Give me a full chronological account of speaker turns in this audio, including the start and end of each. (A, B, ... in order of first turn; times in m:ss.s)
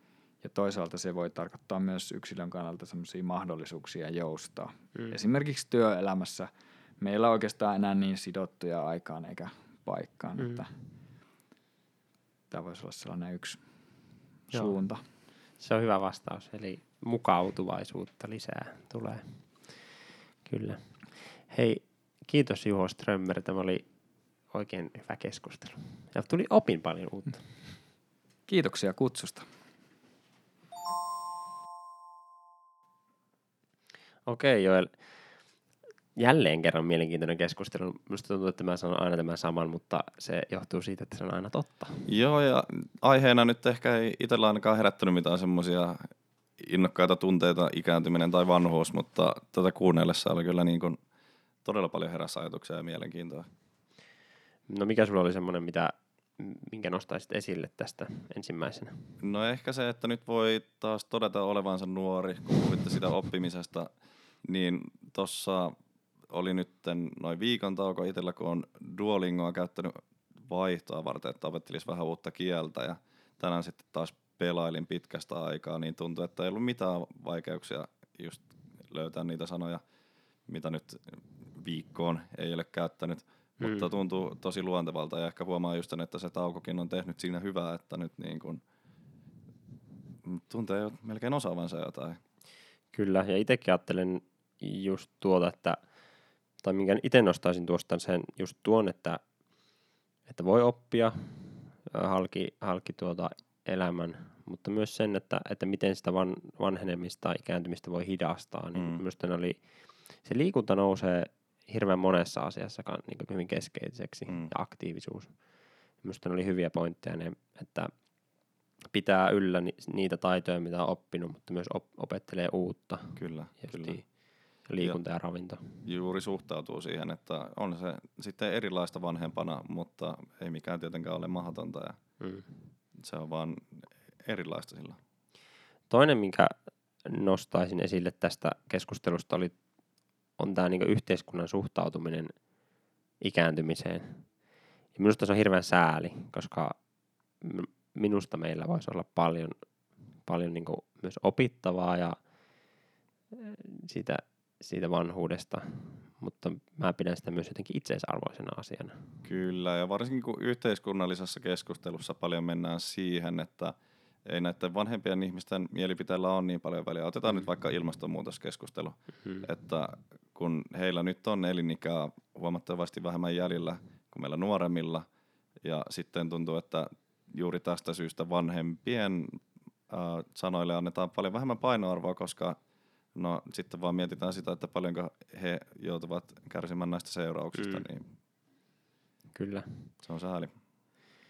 0:00.4-0:06.5 A
0:07.0-0:10.7 A
0:12.5-0:13.6 A
0:14.5-0:15.0 A
0:15.6-0:23.9 B
0:24.5-0:27.8 B
0:28.5-0:29.5 A
0:34.2-0:35.3 B
0:36.2-0:42.0 B
0:42.0-0:46.1 C
0:46.6-0:51.0 C
0:51.6-0:53.5 C
0:54.7-0:59.0 B
0:59.2-1:03.9 C
1:04.4-1:05.7 C
1:06.3-1:19.8 C
1:20.5-1:21.0 C
1:21.6-1:28.6 C
1:23.6-1:23.9 B
1:30.2-1:32.2 C
1:32.9-1:35.8 B
1:36.6-1:39.2 B
1:40.3-1:58.0 B
1:48.7-1:49.0 C
1:54.3-1:54.5 C
1:58.9-2:05.8 B
2:03.2-2:04.1 C
2:04.6-2:05.0 C
2:05.8-2:12.0 C
2:12.2-2:12.5 B
2:13.0-2:13.6 C
2:14.2-2:15.0 C
2:15.9-2:16.5 B
2:17.0-2:19.6 B
2:20.4-2:22.4 B
2:23.2-2:26.8 B
2:27.4-2:29.6 B
2:30.2-2:32.2 B
2:33.3-2:39.0 B
2:39.2-2:55.0 C
2:55.6-3:02.6 C
3:03.1-3:08.0 C
3:07.6-3:07.8 B
3:09.3-3:09.9 B
3:10.0-3:10.5 C